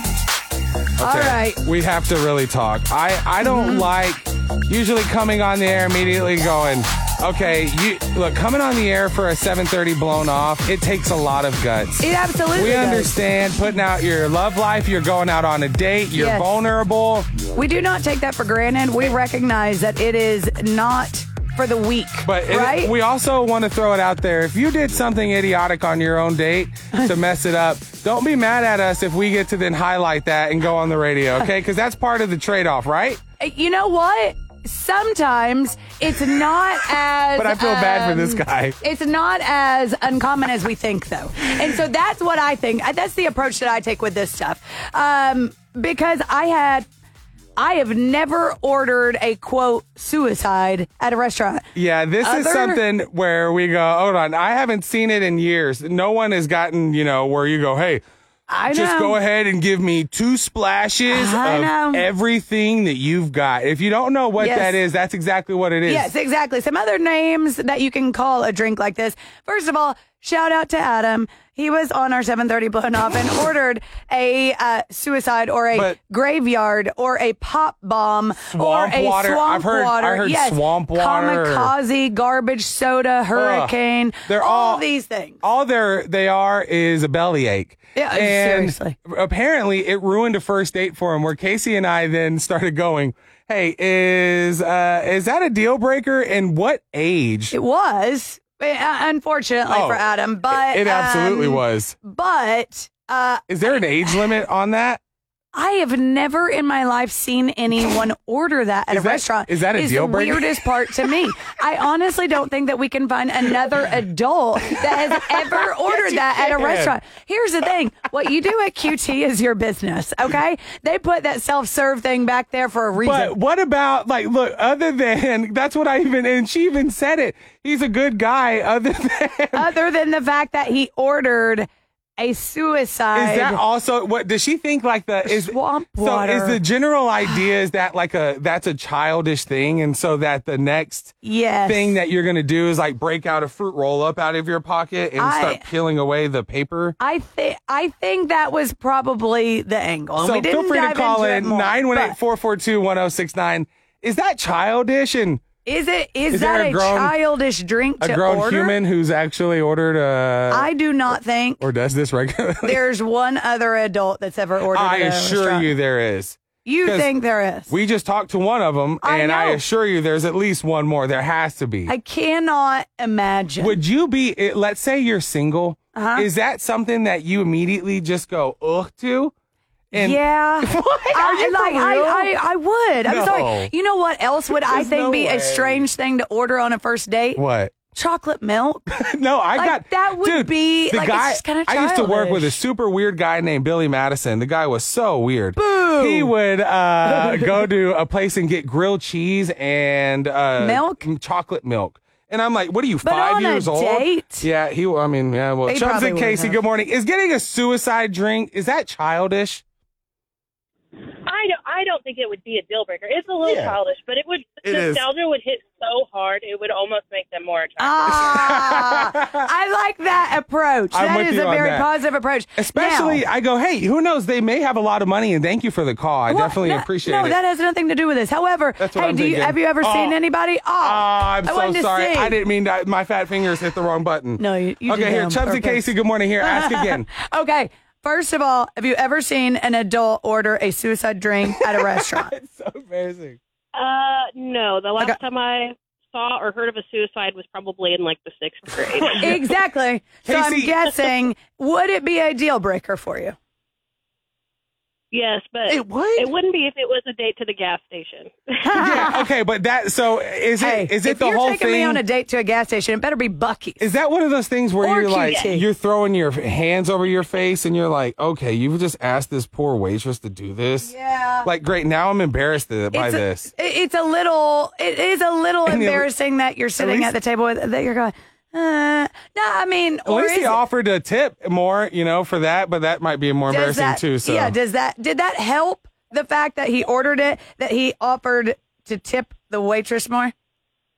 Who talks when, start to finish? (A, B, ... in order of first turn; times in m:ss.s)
0:01.0-0:17.3 A
0:01.0-0:01.6 B
0:03.4-0:03.9 B
0:12.0-0:13.1 B
0:16.1-0:16.5 B
0:17.5-0:22.9 B
0:22.2-0:33.2 A
0:33.4-0:46.9 B
0:37.4-0:38.8 A
0:47.6-0:51.7 B
0:51.8-0:58.0 A
0:52.2-0:52.8 B
0:58.5-0:59.2 B
0:58.6-1:06.1 A
1:01.1-1:02.1 B
1:04.4-1:04.8 B
1:05.9-1:25.4 B
1:18.5-1:21.7 A
1:23.4-1:23.8 A
1:24.3-1:24.9 A
1:25.4-1:37.6 A
1:28.0-1:29.0 B
1:37.5-1:44.3 B
1:39.7-1:42.0 A
1:43.5-1:45.0 A
1:45.5-2:03.4 B
1:48.9-1:51.1 A
1:54.7-1:57.0 A
2:03.0-2:09.8 A
2:09.6-2:11.7 B
2:12.2-2:13.6 B
2:13.1-2:27.0 A
2:15.2-2:16.6 B
2:21.2-2:22.0 B
2:25.2-2:25.7 B
2:27.0-2:32.2 B
2:30.2-2:35.4 A
2:35.6-2:38.8 B
2:36.3-2:37.2 A
2:38.0-2:40.7 A
2:40.5-2:41.7 B
2:41.6-2:42.8 A
2:42.6-2:45.7 B
2:44.7-2:47.1 A
2:46.6-2:47.7 B
2:47.7-2:51.9 A
2:49.0-2:49.6 B
2:51.9-2:53.8 B
2:53.6-2:59.3 A
2:56.0-2:56.3 B
2:59.9-3:02.3 A
2:59.9-3:07.4 B
3:03.0-3:03.7 A
3:04.5-3:05.9 A
3:07.4-3:07.8 A
3:07.9-3:08.8 B
3:08.9-3:29.6 A
3:09.6-3:12.6 B
3:15.6-3:16.3 B
3:17.1-3:17.6 B
3:20.6-3:21.0 B
3:23.0-3:24.5 B
3:25.7-3:26.6 B
3:31.3-3:38.3 C
3:33.4-3:33.8 A
3:34.6-3:35.0 A
3:37.8-3:43.2 B
3:38.1-3:39.5 A
3:40.9-3:41.9 A
3:42.6-3:47.4 A
3:46.3-3:52.4 B
3:48.8-3:50.2 A
3:50.8-3:57.1 A
3:54.4-3:55.9 B
3:56.4-4:02.3 B
4:01.5-4:03.4 A
4:03.8-4:09.4 C
4:09.0-4:09.5 A
4:09.2-4:13.4 B
4:10.2-4:11.2 A
4:15.1-4:18.9 C
4:15.7-4:16.3 A
4:18.7-4:19.2 B
4:18.7-4:22.0 A
4:20.6-4:23.8 B
4:23.8-4:33.5 A
4:24.8-4:25.7 B
4:30.8-4:31.5 B
4:32.9-4:40.6 B
4:35.7-4:36.1 A
4:36.8-4:37.1 A
4:40.1-4:44.6 A
4:43.5-4:50.3 B